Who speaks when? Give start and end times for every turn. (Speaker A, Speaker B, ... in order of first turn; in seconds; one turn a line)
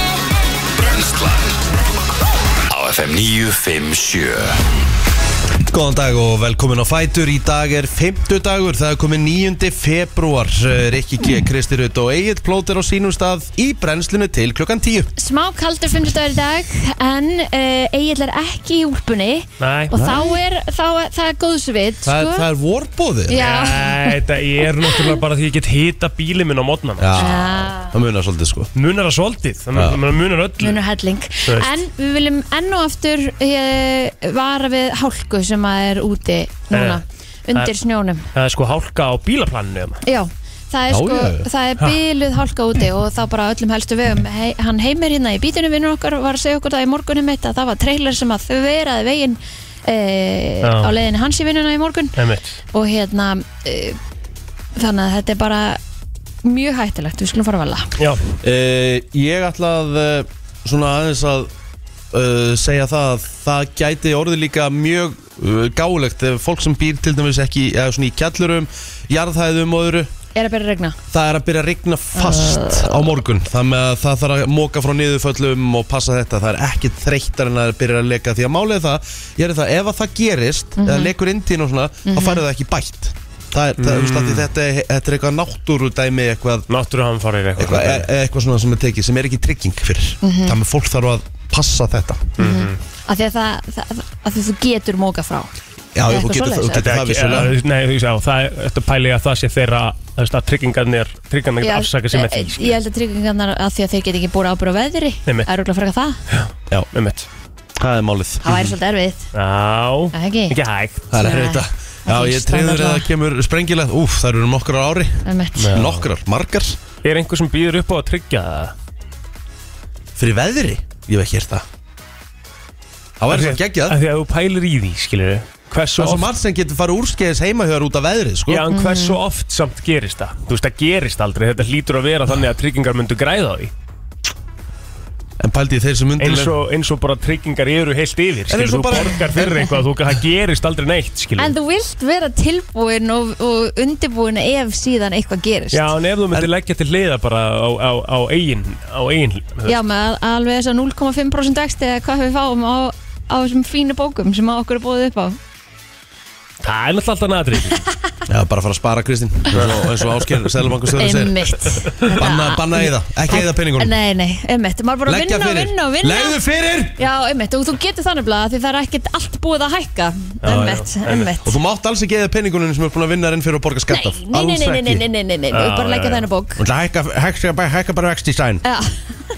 Speaker A: 0.7-1.6
Speaker A: 2.7-4.6
Speaker B: 5.7-15.1
Speaker C: 15.2-22.5
Speaker D: 19.6-19.9
Speaker B: 19.9-20.3
Speaker B: 22.0-23.5
Speaker C: 23.3-24.2
Speaker D: 23.3-27.1
Speaker C: 24.8-25.1
Speaker B: 27.0-28.7
Speaker C: 27.2-27.9
Speaker D: 28.7-30.8
Speaker B: 29.7-30.0
Speaker C: 30.6-38.2
Speaker D: 31.4-31.8
Speaker D: 36.7-37.0
Speaker D: 38.3-40.0
Speaker C: 40.0-52.1
Speaker B: 40.9-41.5
Speaker D: 50.6-50.9
Speaker D: 52.1-52.6
Speaker C: 52.7-54.0
Speaker C: 54.8-55.8
Speaker C: 56.4-57.9
Speaker B: 58.4-61.5
Speaker B: 62.1-70.1
Speaker C: 70.3-71.0
Speaker B: 71.1-86.7
Speaker C: 72.1-73.0
Speaker C: 80.8-81.1
Speaker C: 82.0-82.4
Speaker D: 83.8-84.5
Speaker D: 86.7-88.1
Speaker B: 87.6-92.4
Speaker C: 90.2-90.5
Speaker D: 92.4-92.8
Speaker C: 92.4-95.6
Speaker B: 95.9-97.5
Speaker C: 96.1-96.8
Speaker D: 96.7-102.8
Speaker C: 101.6-106.2
Speaker D: 106.3-107.3
Speaker B: 107.8-108.8
Speaker C: 108.4-109.3
Speaker D: 109.3-111.0
Speaker C: 110.1-110.5
Speaker B: 111.1-116.8
Speaker C: 111.2-113.1
Speaker C: 115.2-115.7
Speaker D: 115.6-116.0
Speaker D: 117.0-118.7
Speaker B: 120.2-121.6
Speaker B: 123.2-124.0
Speaker D: 123.3-126.3
Speaker B: 126.0-128.7
Speaker D: 128.5-133.7
Speaker C: 128.7-129.2
Speaker B: 135.4-136.5
Speaker D: 136.2-141.5
Speaker B: 138.5-139.7
Speaker C: 141.4-145.9
Speaker D: 145.7-149.8
Speaker C: 149.7-155.4
Speaker D: 156.6-157.8
Speaker B: 158.3-163.9
Speaker D: 159.5-159.9
Speaker C: 160.9-166.4
Speaker B: 165.1-167.0
Speaker C: 167.0-171.5
Speaker D: 170.4-171.3
Speaker B: 171.4-175.0
Speaker C: 173.9-176.6
Speaker D: 175.5-176.2
Speaker B: 176.6-178.6
Speaker C: 178.6-179.0